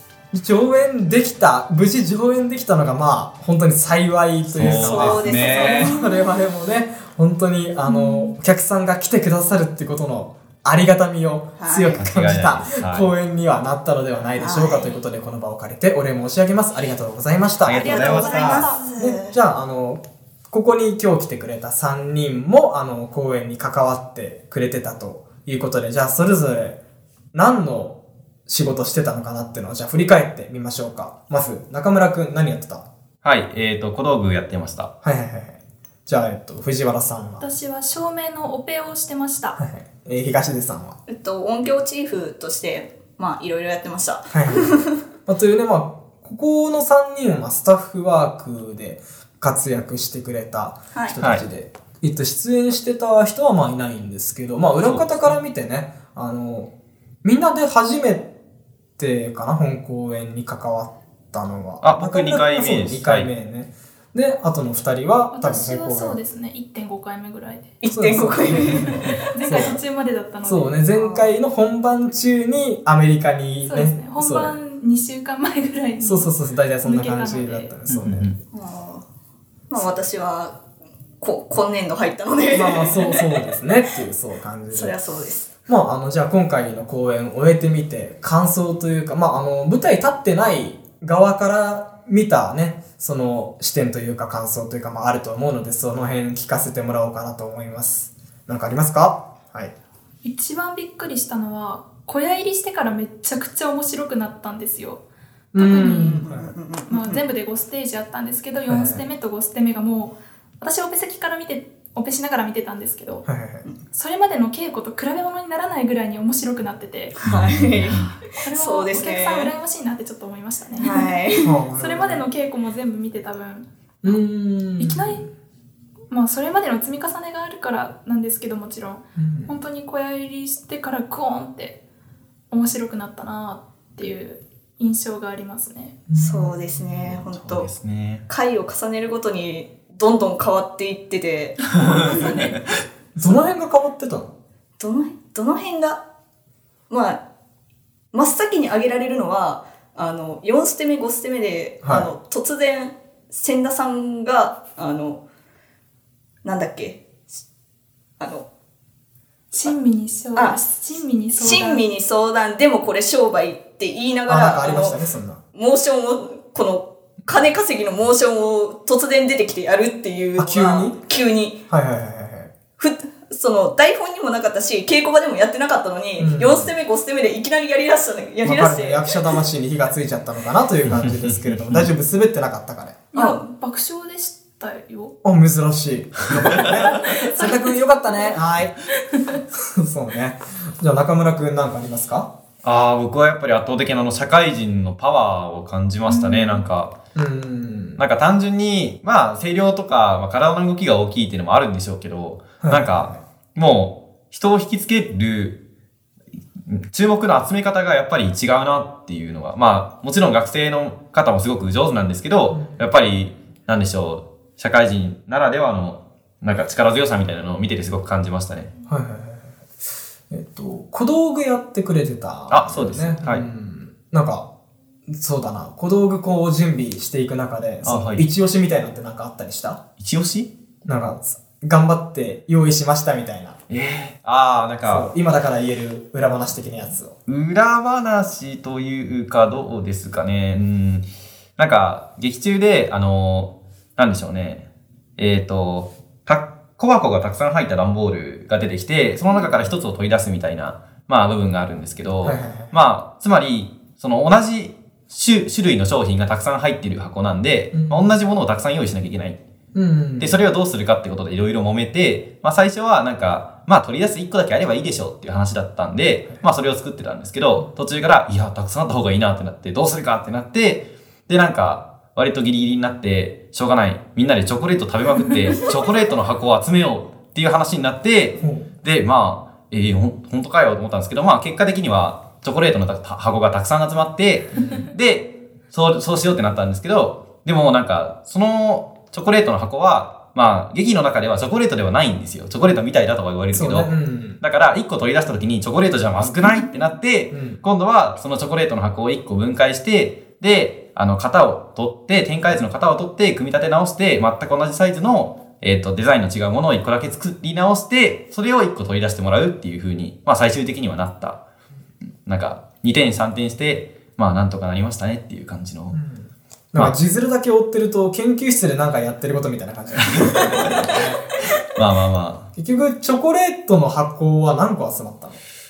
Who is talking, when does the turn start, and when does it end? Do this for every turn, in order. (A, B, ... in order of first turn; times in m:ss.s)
0:00.3-0:26.8 A
0:04.5-0:06.0 B
0:04.6-0:06.4 C
0:07.8-0:08.4 D
0:11.6-0:12.0 C
0:12.0-0:13.1 B
0:14.3-0:15.0 C
0:17.6-0:18.7 B
0:17.7-0:19.4 C
0:27.3-0:32.9 A
0:33.2-0:34.9 B
0:35.0-0:37.5 A
0:37.4-0:39.6 D
0:39.6-0:41.0 A
0:41.1-0:45.0 C
0:44.3-0:56.7 A
0:51.2-0:51.4 B
0:54.8-0:55.3 B
0:57.2-0:58.4 A
0:59.0-1:06.2 A
1:01.8-1:03.3 B
1:05.3-1:07.7 D
1:07.8-1:09.2 C
1:07.9-1:09.8 A
1:09.3-1:10.8 D
1:10.4-1:14.6 A
1:10.9-1:11.4 C
1:13.7-1:16.3 D
1:16.0-1:18.3 A
1:16.8-1:17.7 D
1:17.9-1:18.3 B
1:18.5-1:19.0 C
1:19.7-1:20.6 C
1:21.2-1:23.5 C
1:22.5-1:25.0 A
1:24.7-1:25.5 C
1:25.7-1:39.8 A
1:40.2-1:45.0 D
1:45.5-1:46.5 A
1:45.6-1:46.2 D
1:45.8-1:47.2 C
1:46.9-1:53.3 D
1:48.7-1:49.1 A
1:53.2-1:53.7 A
1:53.9-1:57.2 D
1:57.2-1:59.5 C
1:57.2-1:58.1 B
1:57.9-2:04.2 D
2:00.8-2:01.5 C
2:01.4-2:02.3 A
2:04.0-2:05.3 A
2:04.8-2:05.2 D
2:06.1-2:11.8 D
2:09.2-2:09.6 A
2:12.5-2:16.0 D
2:16.1-2:17.1 A
2:16.2-2:17.7 C
2:17.1-2:18.2 B
2:18.3-2:22.4 C
2:21.6-2:22.6 D
2:23.2-2:24.4 A
2:24.8-2:26.1 C
2:26.9-2:27.2 C
2:28.1-2:35.2 C
2:31.8-2:32.1 A
2:36.4-2:37.1 C
2:38.2-2:38.5 C
2:39.5-2:41.8 D
2:40.4-2:40.6 C
2:41.3-2:45.0 C
2:44.3-2:45.4 A
2:45.5-2:51.6 C
2:50.4-2:51.0 A
2:51.7-2:52.5 A
2:52.8-2:59.4 C
2:56.2-2:56.7 A
2:58.4-3:03.0 A
3:00.9-3:01.9 B
3:03.1-3:05.1 D
3:03.1-3:03.4 C
3:05.2-3:08.8 A
3:06.9-3:09.4 D
3:09.5-3:12.3 A
3:12.6-3:17.0 B
3:16.1-3:16.6 D
3:17.2-3:18.0 A
3:18.0-3:25.6 B
3:22.6-3:23.2 A
3:26.7-3:38.7 B
3:32.5-3:32.9 A
3:38.9-3:39.6 A
3:40.3-3:44.5 A
3:42.5-3:43.5 B
3:45.1-3:49.8 A
3:47.8-3:48.2 B
3:50.0-3:50.5 B
3:50.9-3:53.6 A
3:53.7-3:55.1 B
3:54.8-3:57.1 A
3:57.3-4:19.4 B
4:12.2-4:12.8 A
4:17.7-4:18.1 A
4:19.7-4:20.4 A
4:20.2-5:11.4 B
4:38.4-4:38.7 A
4:53.5-4:54.4 A
4:56.2-4:56.6 A
4:57.3-4:57.6 A
5:12.2-5:16.0 B
5:15.9-5:21.2 A
5:20.0-5:21.0 B
5:21.7-5:22.5 B
5:22.6-5:25.4 A